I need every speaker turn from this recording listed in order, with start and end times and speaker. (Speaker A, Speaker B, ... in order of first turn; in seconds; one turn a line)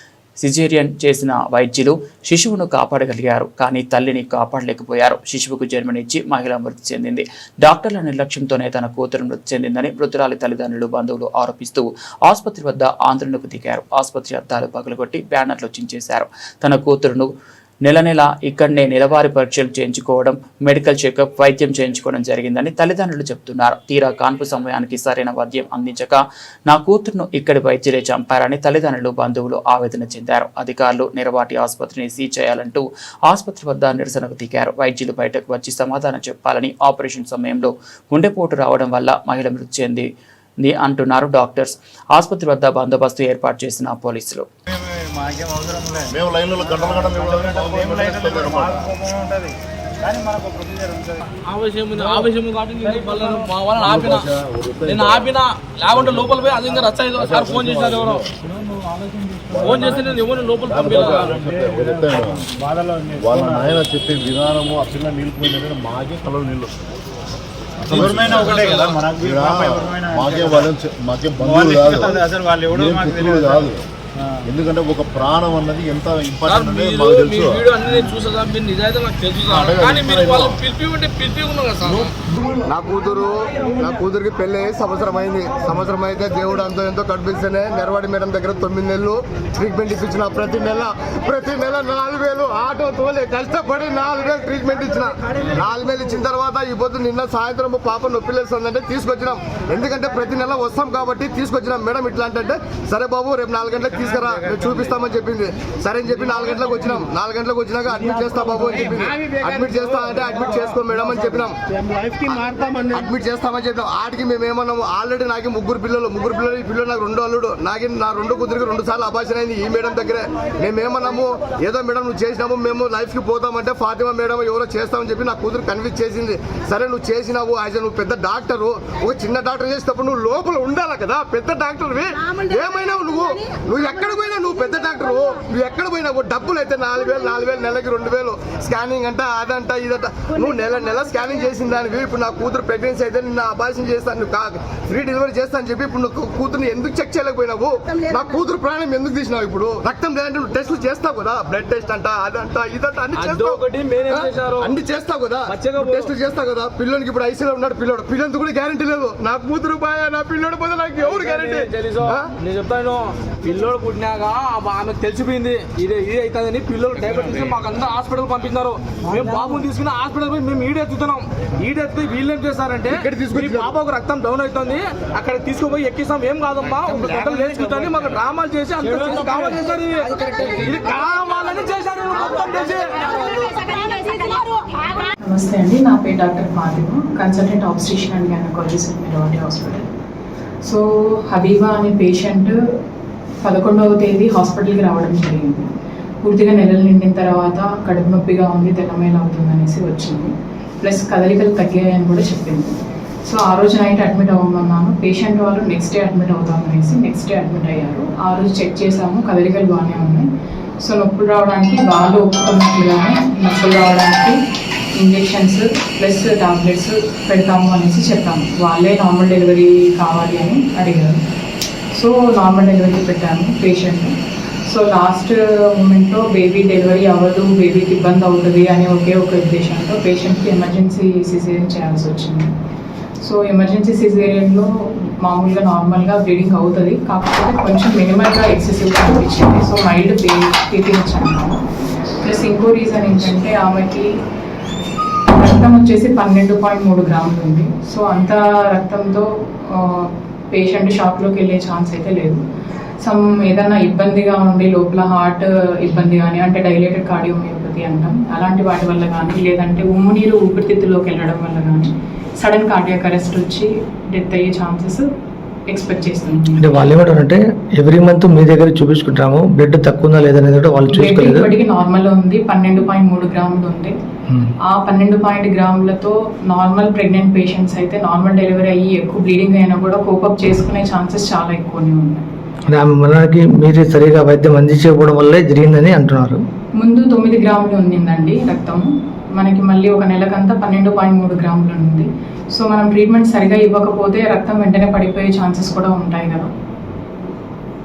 Speaker A: 0.4-17.3
Speaker A: 17.8-40.1
Speaker A: 40.6-44.5
Speaker B: 44.7-46.1
Speaker C: 46.1-49.0
Speaker B: 46.7-51.3
Speaker D: 51.5-54.3
Speaker B: 52.8-53.4
Speaker C: 53.8-58.3
Speaker D: 54.9-58.2
Speaker B: 58.5-59.5
Speaker C: 59.5-62.5
Speaker D: 59.6-61.3
Speaker B: 60.9-63.8
Speaker C: 63.1-66.9
Speaker C: 67.8-72.2
Speaker B: 67.9-70.7
Speaker D: 68.3-69.0
Speaker B: 71.4-73.7
Speaker C: 72.7-73.8
Speaker C: 74.4-77.7
Speaker D: 76.5-82.1
Speaker C: 79.5-80.6
Speaker E: 82.6-111.6
Speaker E: 112.1-162.3
Speaker D: 153.1-154.8
Speaker D: 155.5-156.1
Speaker D: 161.0-183.6
Speaker E: 172.9-173.7
Speaker F: 185.2-189.9
Speaker F: 190.6-192.6
Speaker F: 193.4-195.7
Speaker F: 196.2-210.3
Speaker F: 210.8-214.4
Speaker F: 215.0-221.2
Speaker F: 221.9-232.5
Speaker F: 233.2-241.6
Speaker F: 242.2-244.1
Speaker F: 245.2-252.4
Speaker F: 253.0-265.1
Speaker F: 265.7-266.9
Speaker G: 266.7-271.4
Speaker F: 271.0-273.9
Speaker F: 274.6-282.2
Speaker G: 282.7-286.4
Speaker F: 286.8-296.5